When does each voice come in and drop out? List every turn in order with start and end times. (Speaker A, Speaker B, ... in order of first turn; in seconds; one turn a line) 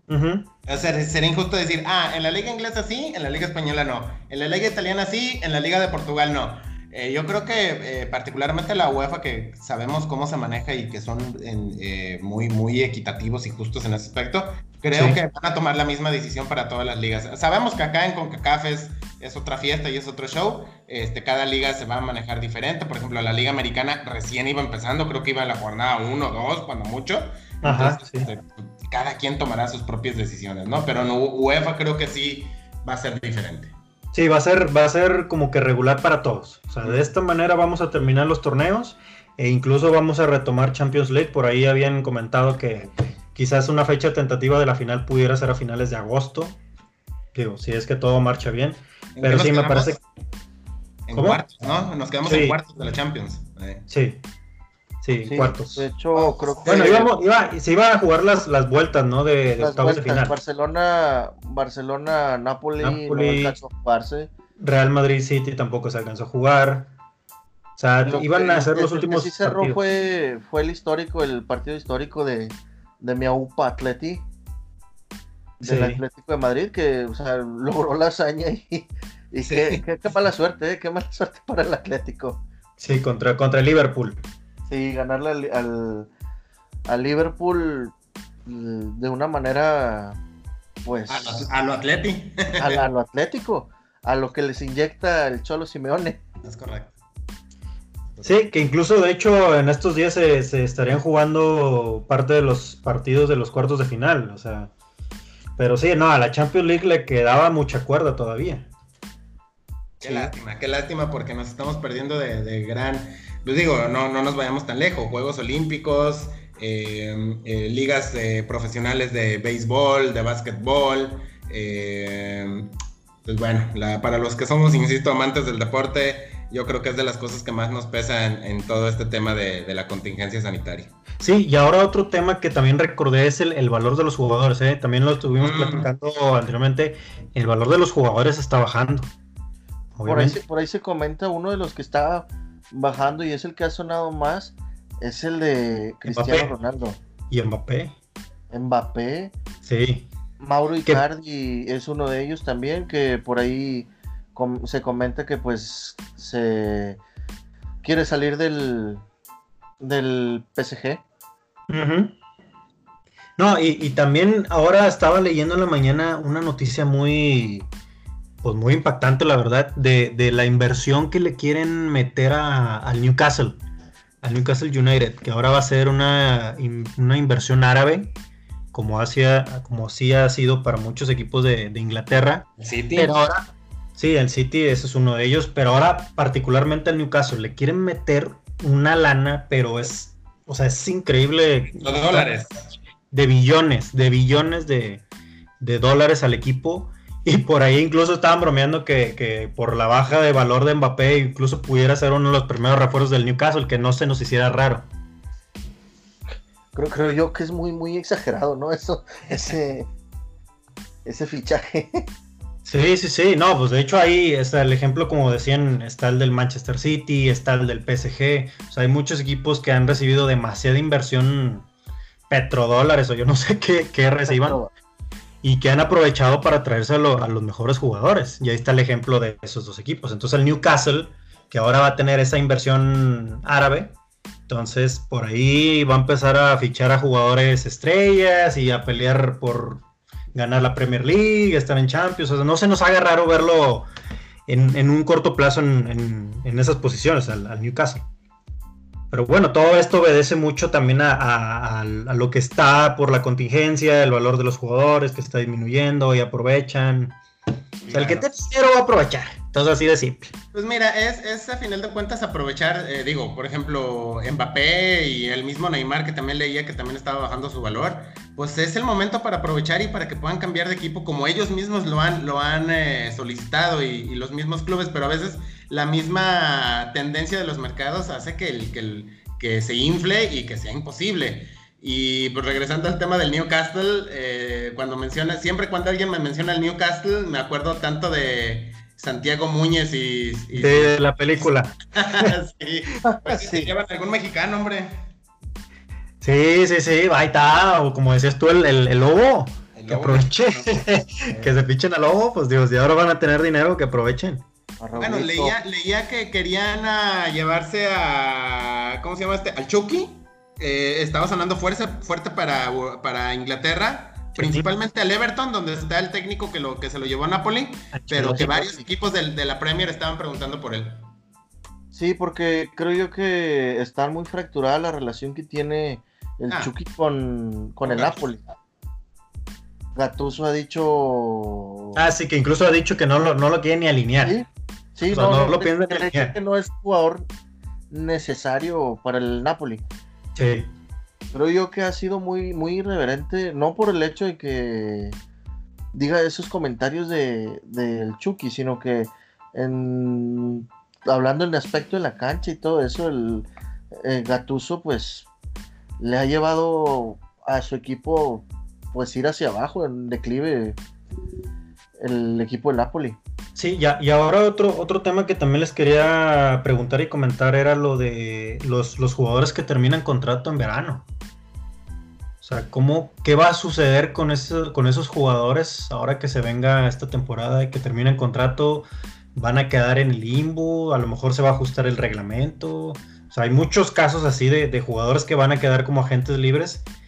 Speaker A: 0.1-0.5
Speaker B: 0.7-33.8
Speaker A: 14.9-15.2
Speaker A: 27.6-28.3
Speaker A: 34.1-46.6
Speaker A: 47.3-50.0
Speaker B: 49.2-50.0
Speaker B: 51.1-53.9
Speaker A: 51.1-51.4
Speaker A: 52.2-52.6
Speaker A: 53.9-54.2
Speaker A: 55.0-55.9
Speaker C: 55.2-57.1
Speaker A: 56.5-60.4
Speaker B: 56.7-57.1
Speaker C: 59.6-64.3
Speaker A: 62.8-63.6
Speaker A: 64.6-66.9
Speaker A: 67.8-69.8
Speaker C: 68.0-74.2
Speaker C: 75.6-82.4
Speaker A: 75.6-76.0
Speaker B: 79.5-79.8
Speaker A: 82.8-84.2
Speaker C: 84.7-86.1
Speaker C: 86.9-87.9
Speaker C: 88.5-90.2
Speaker C: 90.8-91.5
Speaker B: 91.1-92.8
Speaker C: 92.6-96.2
Speaker B: 96.4-96.9
Speaker A: 98.2-104.7
Speaker A: 105.6-108.7
Speaker A: 110.0-110.3
Speaker B: 110.0-122.7
Speaker B: 123.2-130.9
Speaker A: 131.2-139.1
Speaker B: 135.4-135.9
Speaker A: 139.9-140.4
Speaker C: 140.1-147.0
Speaker A: 146.1-146.5
Speaker A: 147.3-147.9
Speaker C: 148.5-149.3
Speaker A: 149.6-150.1
Speaker C: 150.4-157.0
Speaker C: 157.8-159.0
Speaker C: 159.8-161.0
Speaker A: 161.7-162.2
Speaker A: 163.4-167.7
Speaker A: 168.4-173.6
Speaker A: 174.2-178.1
Speaker A: 178.7-192.3
Speaker B: 182.6-183.2
Speaker B: 191.7-192.5
Speaker A: 193.1-195.0
Speaker A: 195.6-204.9
Speaker C: 206.7-209.9
Speaker C: 211.1-212.1
Speaker A: 212.7-221.7
Speaker A: 222.3-224.6
Speaker C: 224.3-224.7
Speaker A: 225.4-234.0
Speaker A: 234.5-239.8
Speaker A: 240.3-243.9
Speaker A: 244.5-248.1
Speaker A: 249.1-257.2
Speaker B: 257.9-258.3
Speaker A: 257.9-260.3
Speaker B: 260.5-295.0
Speaker A: 290.5-292.3
Speaker C: 293.0-293.7
Speaker A: 296.2-304.4
Speaker B: 299.8-300.7
Speaker B: 301.3-301.5
Speaker C: 304.8-305.5
Speaker B: 305.0-321.1
Speaker A: 314.4-314.7
Speaker A: 317.9-318.8
Speaker C: 321.9-328.4
Speaker B: 327.8-328.3
Speaker C: 329.9-332.0
Speaker A: 331.9-334.4
Speaker C: 334.2-337.3
Speaker A: 335.1-336.4
Speaker C: 337.9-339.8
Speaker A: 340.4-340.7
Speaker C: 341.3-345.2
Speaker C: 345.9-355.3
Speaker C: 356.0-360.8
Speaker C: 362.0-363.2
Speaker A: 363.6-371.1
Speaker A: 372.4-386.9